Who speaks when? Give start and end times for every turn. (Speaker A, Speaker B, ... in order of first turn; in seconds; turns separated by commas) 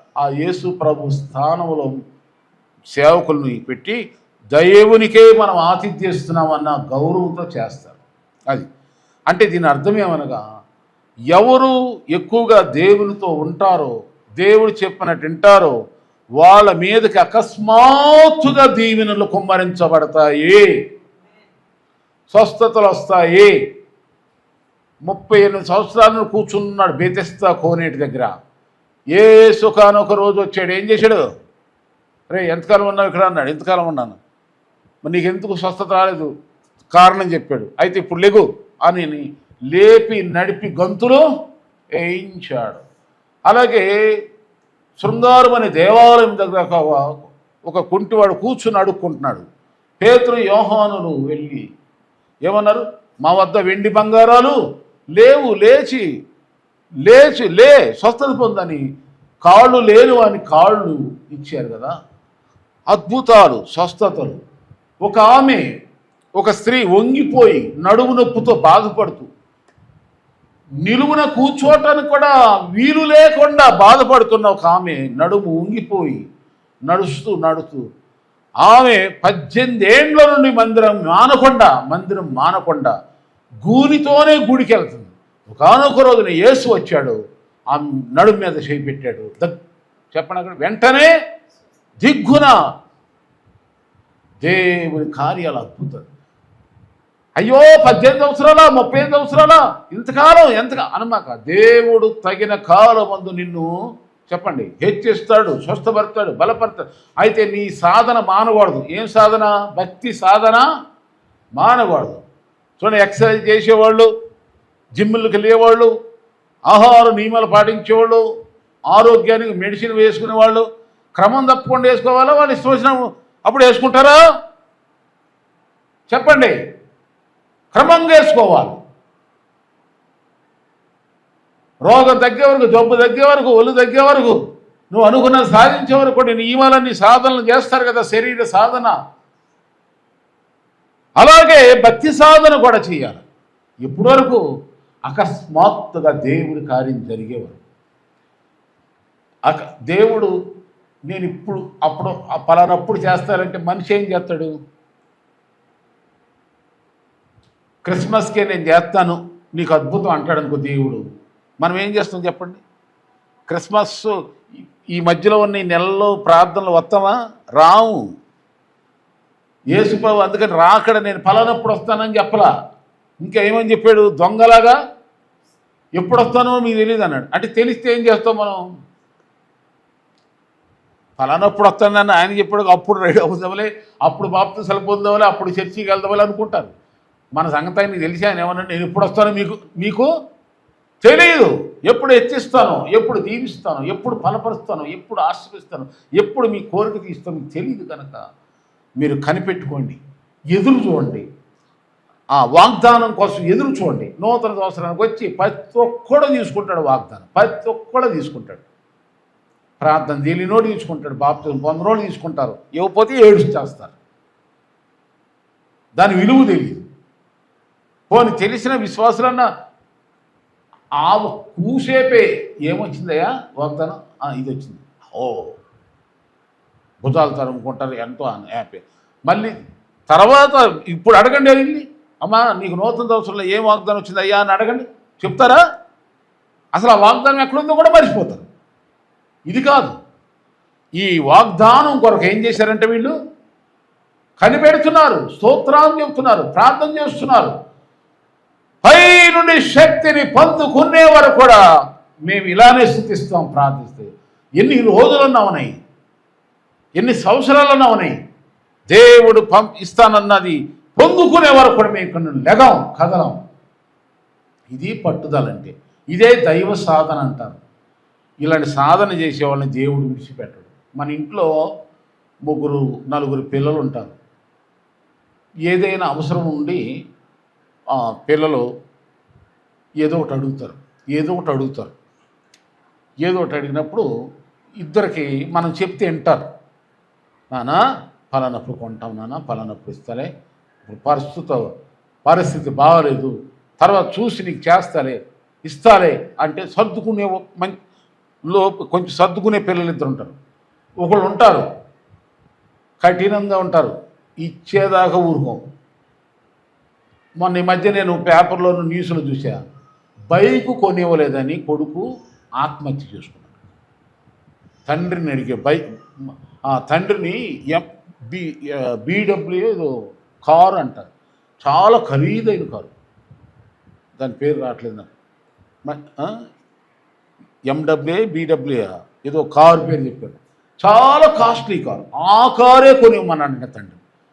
Speaker A: 0.2-1.9, Speaker A: 2.9-4.0, Speaker A: 4.5-8.0, Speaker A: 9.3-10.4, Speaker A: 11.3-15.7, Speaker A: 16.4-20.7, Speaker A: 22.3-23.5, Speaker A: 25.1-28.3, Speaker A: 29.1-31.2, Speaker A: 32.3-34.2, Speaker A: 35.0-36.3, Speaker A: 36.9-41.2, Speaker A: 41.9-42.8, Speaker A: 43.5-43.9, Speaker A: 45.0-49.4, Speaker A: 50.0-51.6, Speaker A: 52.5-54.6, Speaker A: 55.1-56.0, Speaker A: 57.0-58.8, Speaker A: 59.4-61.9, Speaker A: 62.9-64.4, Speaker A: 65.0-65.6, Speaker A: 66.4-69.3, Speaker A: 70.8-76.2, Speaker A: 76.9-77.8, Speaker A: 78.6-82.9, Speaker A: 83.6-87.2, Speaker A: 87.7-89.5, Speaker A: 90.1-91.1, Speaker A: 92.0-92.5, Speaker A: 94.4-96.1, Speaker A: 97.4-103.7, Speaker A: 104.3-110.6, Speaker A: 111.6-112.2, Speaker A: 112.8-114.1, Speaker A: 115.0-115.9, Speaker A: 116.7-118.2, Speaker A: 118.9-120.6, Speaker A: 121.2-124.2, Speaker A: 126.1-126.5, Speaker A: 127.7-128.8, Speaker A: 131.8-134.4, Speaker A: 134.9-138.9, Speaker A: 141.2-143.2, Speaker A: 143.8-144.4, Speaker A: 145.1-147.6, Speaker A: 149.4-150.3, Speaker A: 151.1-154.5, Speaker A: 157.8-161.0, Speaker A: 161.6-162.6, Speaker A: 163.5-164.1, Speaker A: 164.9-168.0, Speaker A: 169.7-172.5, Speaker A: 173.2-174.8, Speaker A: 176.0-178.6, Speaker A: 181.2-186.7, Speaker A: 187.3-190.1, Speaker A: 191.0-198.2, Speaker A: 199.0-200.0, Speaker A: 200.5-201.2, Speaker A: 202.3-208.6, Speaker A: 209.8-213.9, Speaker A: 215.9-216.8, Speaker A: 218.1-219.4, Speaker A: 221.0-225.6, Speaker A: 227.0-229.5, Speaker A: 230.1-235.6, Speaker A: 236.7-238.4, Speaker A: 239.5-240.0, Speaker A: 241.0-243.1, Speaker A: 244.4-247.5, Speaker A: 248.8-251.6, Speaker A: 252.2-255.7, Speaker A: 257.0-258.1, Speaker A: 258.9-263.4, Speaker A: 264.7-267.6, Speaker A: 268.4-271.5, Speaker A: 272.4-274.1, Speaker A: 275.7-276.8, Speaker A: 277.9-278.6, Speaker A: 280.0-281.9, Speaker A: 283.2-284.1, Speaker A: 284.8-286.5, Speaker A: 287.5-290.3, Speaker A: 290.8-291.6, Speaker A: 292.2-297.8, Speaker A: 298.5-300.4, Speaker A: 301.0-301.6, Speaker A: 303.0-305.6, Speaker A: 307.4-309.6, Speaker A: 310.3-312.0, Speaker A: 312.6-313.5, Speaker A: 314.9-315.8, Speaker A: 316.7-321.1, Speaker A: 321.6-322.9, Speaker A: 324.2-325.1, Speaker A: 325.9-326.4, Speaker A: 327.7-334.0